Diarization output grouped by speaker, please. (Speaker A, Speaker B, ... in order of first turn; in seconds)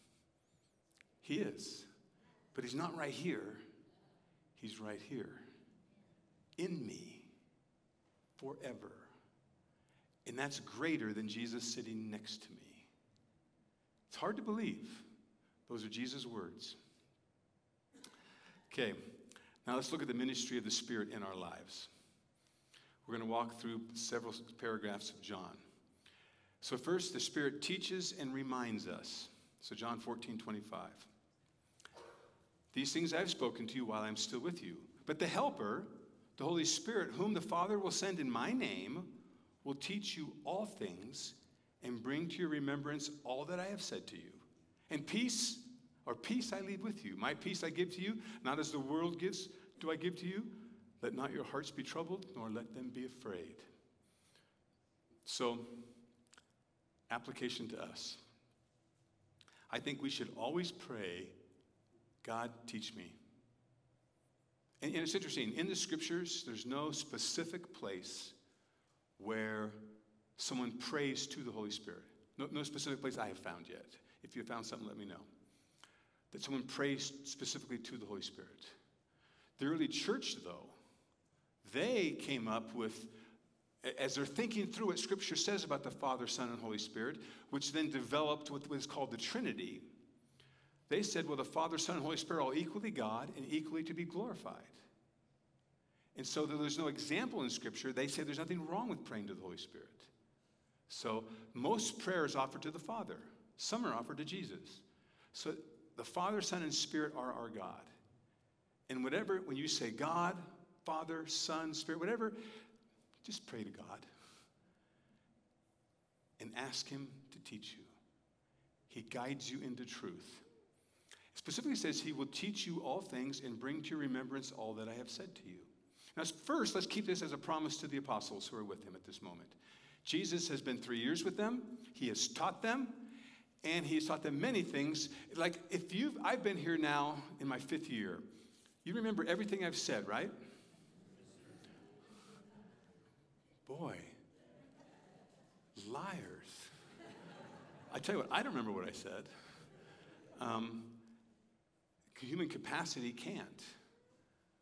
Speaker A: 1.2-1.9, 2.5-3.6, 4.6-5.4, 6.6-7.3, 8.4-9.1, 10.2-12.9, 14.1-15.1, 15.7-16.8, 18.7-21.9, 23.1-25.6, 26.6-31.1, 32.7-53.7, 55.2-55.9, 57.1-58.2, 59.7-61.4, 62.2-63.2, 64.8-68.4, 69.2-75.3, 76.3-78.8, 79.6-80.8, 81.6-83.1, 83.8-89.9, 90.9-94.8, 96.1-100.1, 100.9-107.9, 108.9-112.4, 113.2-114.1, 116.4-117.9, 118.9-120.5, 121.3-133.1, 133.6-138.2, 138.8-140.3, 143.7-144.2, 145.8-146.7, 147.9-149.3, 150.4-151.1, 152.1-153.8